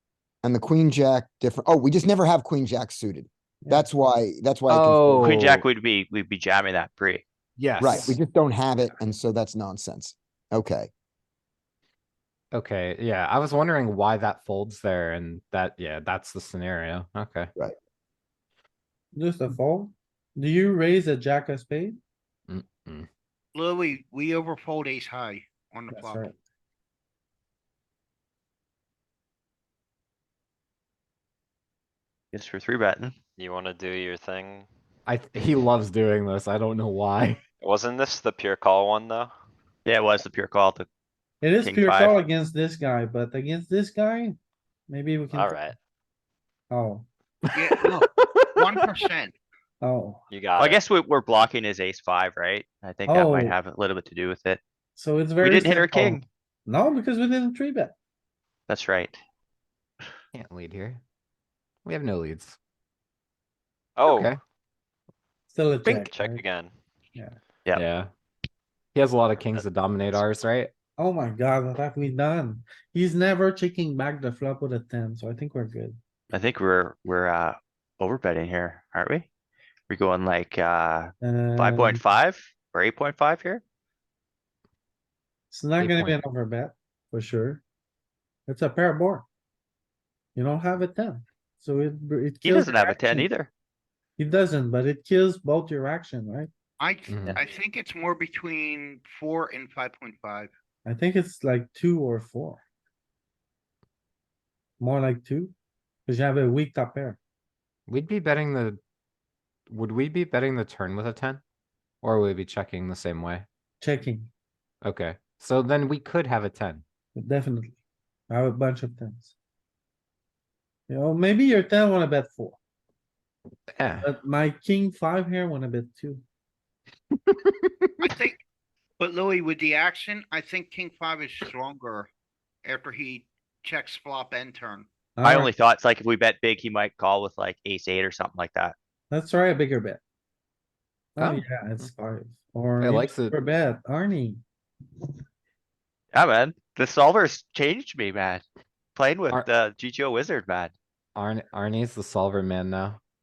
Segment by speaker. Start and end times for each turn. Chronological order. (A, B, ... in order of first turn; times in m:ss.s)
0:00.4-0:05.4 A
0:03.6-0:03.9 B
0:04.7-0:05.6 C
0:05.2-0:07.2 D
0:07.6-0:08.2 C
0:07.8-0:10.9 A
0:12.5-0:17.5 C
0:19.1-0:22.0 B
0:22.5-0:23.1 C
0:23.5-0:26.3 E
0:25.9-0:26.4 B
0:32.3-0:33.2 D
0:33.4-0:34.7 F
0:35.1-0:37.5 C
0:37.6-0:39.3 F
0:39.8-0:40.9 D
0:41.4-0:44.4 B
0:41.6-0:42.2 D
0:44.9-0:45.7 B
0:45.3-0:45.8 F
0:46.7-0:47.1 B
0:47.5-0:49.4 E
0:49.8-0:50.2 B
0:50.3-0:50.8 F
0:50.6-0:54.6 D
0:53.1-0:53.6 B
0:55.0-0:58.0 B
0:55.4-0:56.2 D
0:58.7-0:59.2 D
1:00.3-1:01.0 C
1:01.8-1:02.6 C
1:04.0-1:04.3 F
1:04.0-1:04.4 C
1:05.5-1:06.4 B
1:05.8-1:06.7 F
1:07.7-1:08.1 C
1:09.0-1:10.7 C
1:11.0-1:16.0 B
1:16.3-1:19.3 D
1:19.9-1:23.6 D
1:21.2-1:22.0 B
1:25.5-1:27.6 B
1:25.8-1:26.2 C
1:28.5-1:29.3 B
1:30.4-1:33.3 B
1:32.4-1:33.5 D
1:34.2-1:36.5 B
1:36.8-1:40.5 E
1:37.1-1:37.4 C
1:40.8-1:42.6 B
1:44.8-1:45.6 B
1:46.1-1:47.2 B
1:47.9-1:48.8 C
1:49.7-1:51.4 C
1:52.0-1:53.4 C
1:53.8-1:54.3 B
1:54.8-1:56.8 C
1:57.2-1:57.8 B
1:58.3-1:59.3 B
2:00.9-2:02.6 B
2:03.7-2:04.1 C
2:04.0-2:06.2 B
2:07.3-2:08.1 C
2:08.0-2:08.4 E
2:09.0-2:12.1 E
2:12.6-2:14.9 E
2:15.2-2:15.5 B
2:15.2-2:18.8 D
2:19.1-2:20.0 B
2:21.2-2:24.4 B
2:22.8-2:23.4 C
2:26.1-2:28.4 D
2:29.0-2:30.7 D
2:31.2-2:33.0 C